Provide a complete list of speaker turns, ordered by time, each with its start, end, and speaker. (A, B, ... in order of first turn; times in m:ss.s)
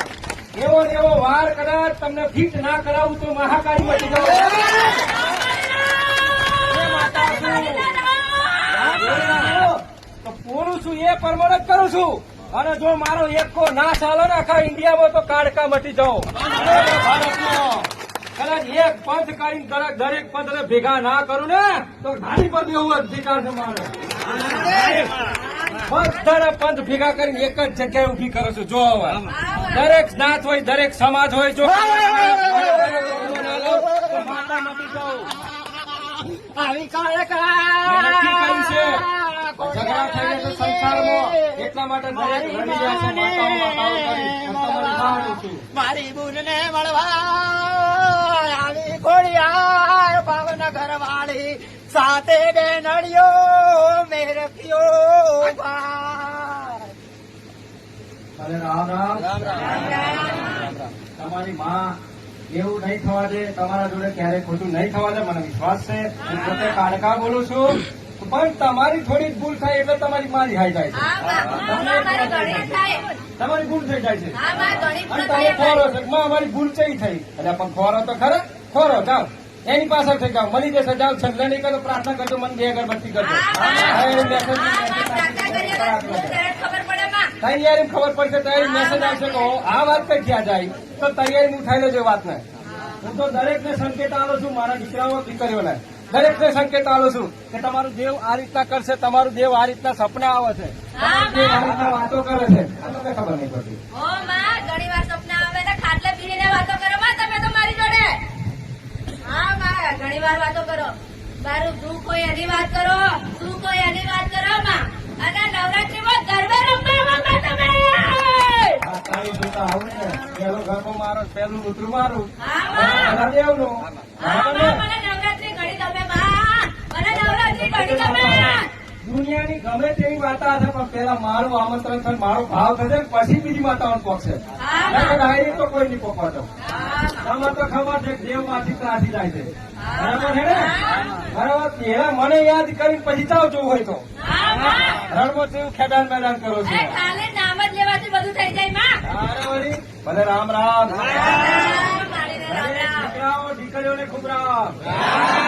0:00.5-0:04.8 A
0:04.4-0:09.6 B
0:06.7-0:07.9 A
0:08.8-0:23.9 A
0:24.3-0:25.3 C
0:24.8-0:25.1 A
0:25.4-0:25.9 B
0:25.8-0:35.3 A
0:29.3-0:29.9 B
0:35.6-0:41.6 C
0:37.8-0:39.0 A
0:39.6-0:45.6 A
0:42.1-0:56.9 C
0:58.4-0:59.8 A
0:59.4-0:59.9 C
0:59.6-1:00.5 B
1:01.1-1:02.0 A
1:02.5-1:12.8 A
1:06.2-1:06.7 B
1:10.9-1:13.2 B
1:13.4-1:14.4 A
1:14.4-1:15.8 B
1:15.1-1:26.4 A
1:23.2-1:27.3 B
1:27.4-1:32.4 A
1:28.6-1:29.5 B
1:33.0-1:43.8 A
1:40.9-1:41.7 B
1:43.9-1:48.2 B
1:49.2-1:58.8 B
1:58.8-2:04.8 A
2:02.4-2:03.2 B
2:04.2-2:08.7 B
2:07.1-2:16.5 A
2:14.6-2:15.2 B
2:16.6-2:17.3 B
2:17.2-2:24.0 A
2:19.8-2:21.1 B
2:24.2-2:25.0 B
2:24.9-2:26.9 A
2:26.6-2:29.0 B
2:29.0-2:31.5 A
2:31.0-2:33.2 B
2:32.5-2:35.0 A